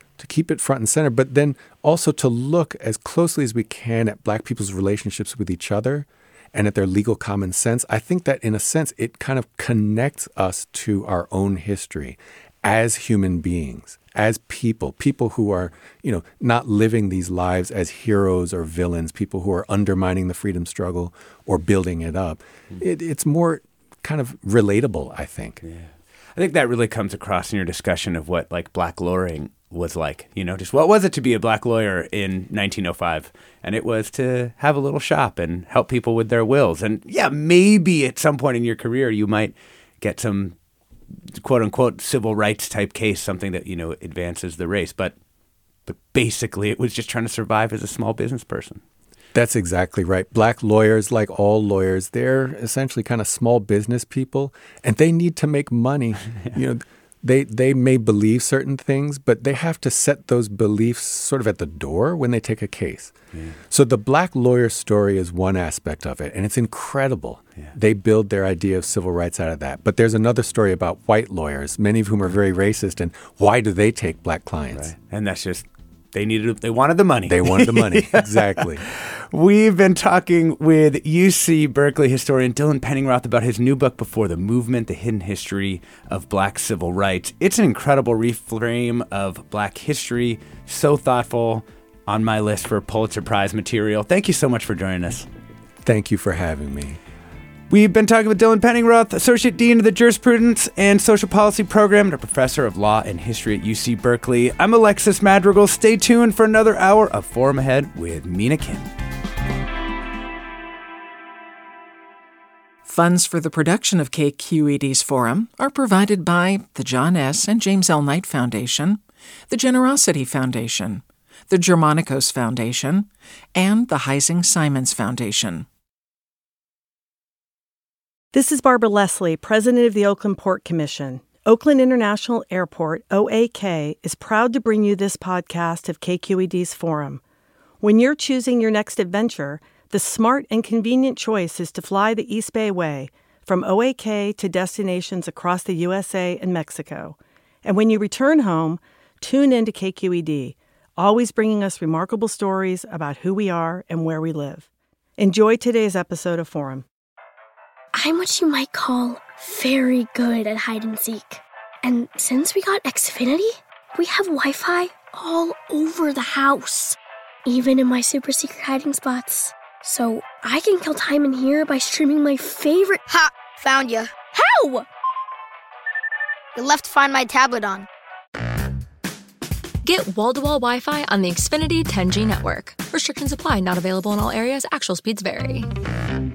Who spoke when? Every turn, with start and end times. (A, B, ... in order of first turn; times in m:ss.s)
0:00.2-0:25.6 A
0:25.6-0:40.6 B
0:41.3-0:45.1 B
0:45.9-0:48.8 B
0:49.3-1:03.1 A
1:03.3-1:03.6 B
1:03.7-1:14.9 A
1:14.7-1:35.3 B
1:17.2-1:18.8 A
1:35.8-1:37.0 A
1:37.7-1:48.9 B
1:52.8-2:05.7 C
2:08.3-2:17.2 D
2:17.8-2:34.7 D
2:35.2-2:36.8 D
2:37.9-2:53.0 E
2:53.1-2:54.1 F
2:54.3-2:54.8 E
2:56.6-2:57.9 F
2:59.8-3:05.7 G